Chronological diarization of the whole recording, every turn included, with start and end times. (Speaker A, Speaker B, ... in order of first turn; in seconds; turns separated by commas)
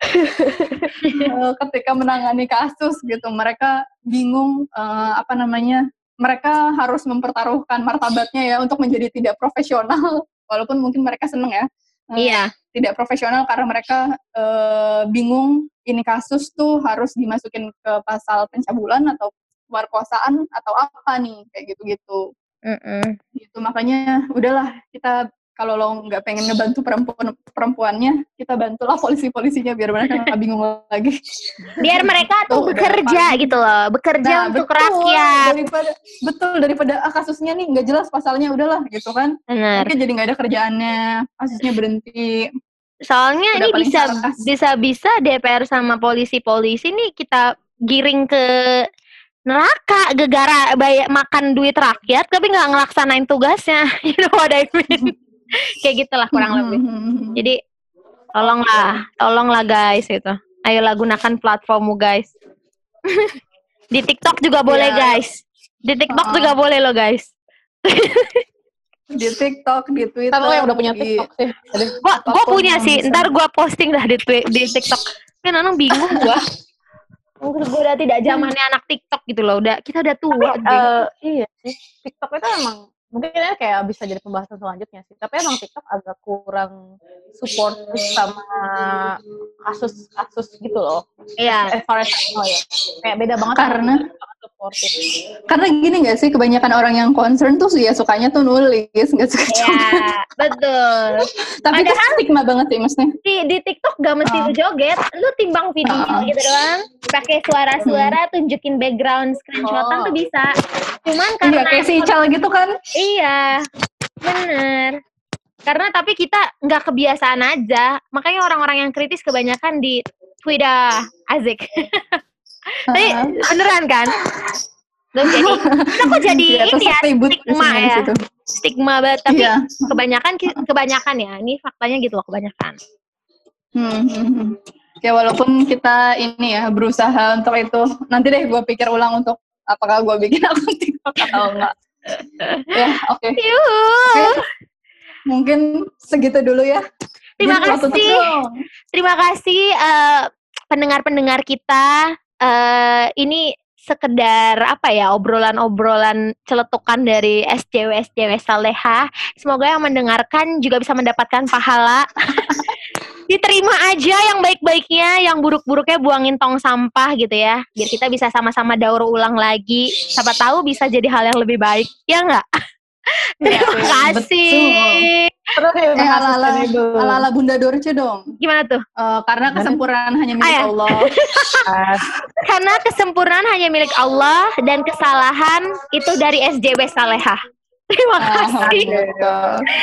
Speaker A: 0.2-1.3, Speaker B: 1.1-22.2, Speaker A: 12.2-12.5, Speaker A: 22.7-23.1, Speaker B: 23.4-31.1, Speaker B: 31.7-33.5, Speaker A: 31.8-35.5, Speaker B: 34.2-42.5, Speaker A: 39.5-39.9, Speaker A: 43.1-48.8, Speaker B: 43.5-44.4, Speaker A: 49.5-55.1, Speaker A: 55.7-56.8, Speaker B: 56.3-57.4, Speaker A: 58.4-62.3, Speaker A: 63.1-63.4, Speaker A: 63.9-67.3, Speaker B: 64.7-65.2, Speaker B: 66.1-66.5, Speaker A: 67.8-68.4, Speaker B: 69.2-71.2, Speaker C: 70.3-72.0, Speaker A: 72.0-76.4, Speaker B: 72.2-73.3, Speaker B: 75.9-76.4, Speaker A: 77.4-80.9, Speaker C: 80.7-86.7, Speaker C: 87.4-95.0, Speaker A: 91.4-91.7, Speaker B: 93.5-94.0, Speaker B: 95.5-100.0, Speaker A: 99.5-102.2, Speaker B: 101.2-103.1, Speaker A: 103.2-110.5, Speaker B: 104.2-104.5, Speaker B: 105.9-106.3, Speaker B: 107.9-108.2, Speaker B: 109.6-110.1, Speaker A: 111.0-112.1, Speaker B: 111.4-112.7, Speaker A: 113.0-113.7, Speaker A: 114.2-115.0, Speaker A: 115.7-122.2, Speaker A: 122.9-124.1, Speaker B: 122.9-123.4, Speaker A: 125.2-132.8, Speaker B: 125.2-128.2, Speaker B: 129.3-129.9, Speaker B: 133.8-141.7, Speaker A: 141.3-142.7, Speaker B: 142.7-143.4, Speaker A: 143.4-144.4, Speaker B: 144.1-144.4, Speaker B: 145.3-146.8, Speaker A: 147.4-148.2, Speaker B: 147.4-148.5, Speaker A: 148.9-162.1, Speaker B: 162.4-162.7, Speaker A: 163.3-172.4, Speaker A: 173.4-175.3, Speaker B: 173.5-175.1, Speaker C: 173.5-174.0, Speaker C: 175.6-177.3, Speaker B: 176.0-178.2, Speaker A: 178.4-178.8, Speaker B: 179.0-181.1, Speaker A: 180.4-181.6, Speaker C: 181.7-182.1, Speaker A: 182.4-187.4, Speaker A: 187.9-188.9, Speaker B: 188.2-189.5, Speaker C: 188.6-189.3